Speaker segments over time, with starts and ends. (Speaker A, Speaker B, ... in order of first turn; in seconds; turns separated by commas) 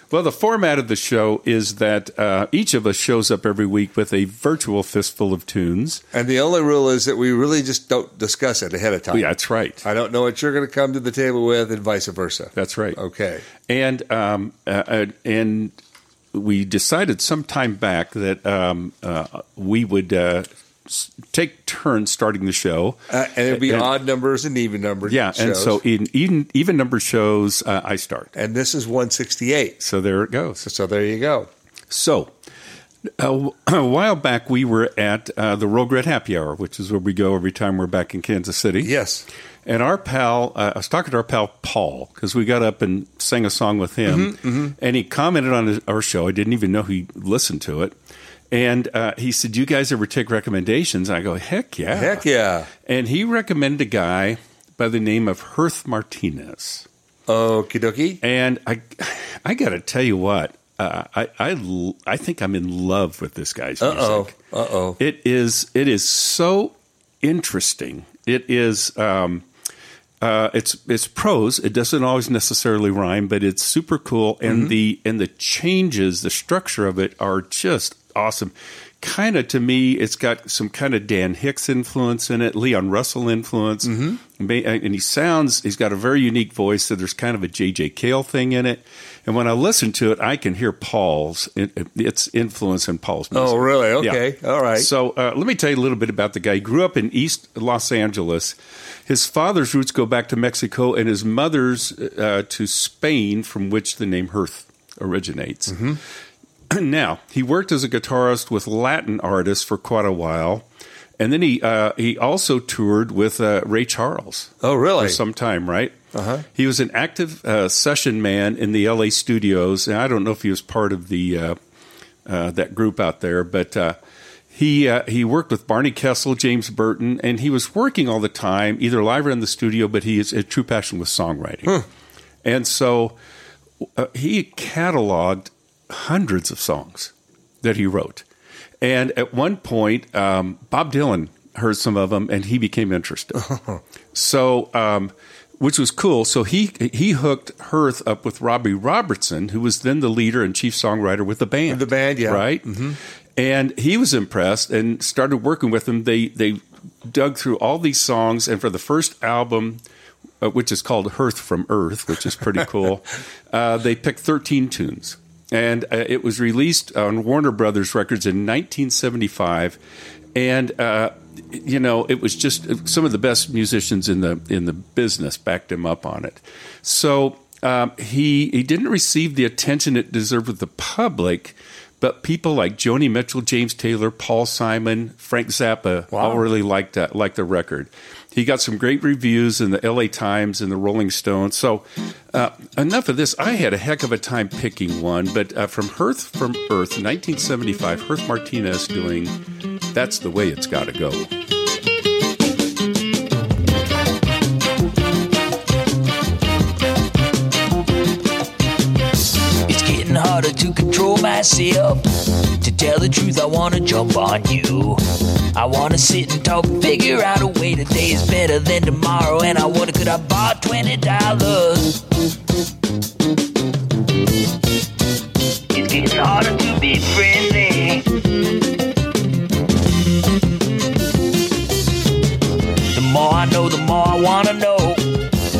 Speaker A: 0.1-6.0, Speaker B: 6.1-9.3, Speaker A: 9.1-9.8, Speaker B: 9.8-13.4, Speaker A: 12.5-13.0, Speaker A: 13.7-15.7, Speaker A: 16.3-23.9, Speaker B: 23.1-25.8, Speaker A: 25.1-28.3, Speaker B: 28.4-29.8, Speaker A: 29.8-30.6, Speaker B: 30.6-31.5, Speaker A: 31.9-32.3, Speaker A: 33.2-38.9, Speaker B: 38.8-39.2, Speaker A: 39.6-47.9, Speaker B: 44.1-44.7, Speaker A: 48.5-52.2, Speaker B: 51.9-52.7, Speaker A: 52.9-56.9, Speaker B: 57.3-58.2, Speaker A: 58.2-64.3, Speaker B: 63.8-65.0, Speaker A: 65.0-69.4, Speaker A: 70.2-94.2, Speaker B: 74.4-74.7, Speaker B: 83.8-84.2, Speaker B: 93.3-94.9, Speaker A: 94.8-98.5, Speaker A: 99.1-105.8, Speaker B: 105.7-106.0, Speaker A: 106.7-110.6, Speaker A: 111.2-115.9, Speaker B: 114.6-115.2, Speaker B: 116.1-116.4, Speaker A: 116.5-121.6, Speaker A: 122.2-124.0, Speaker A: 124.5-131.8, Speaker A: 132.4-133.2, Speaker A: 133.9-137.1, Speaker A: 137.6-138.2, Speaker A: 138.8-143.4, Speaker B: 143.4-143.8, Speaker A: 144.1-152.6, Speaker B: 151.7-153.0, Speaker A: 153.4-159.8, Speaker A: 160.4-169.8, Speaker A: 170.3-199.3, Speaker B: 186.1-186.4, Speaker A: 199.9-201.3, Speaker C: 209.7-212.1, Speaker C: 212.6-215.0, Speaker C: 215.5-222.0, Speaker C: 225.7-228.0, Speaker C: 232.9-235.0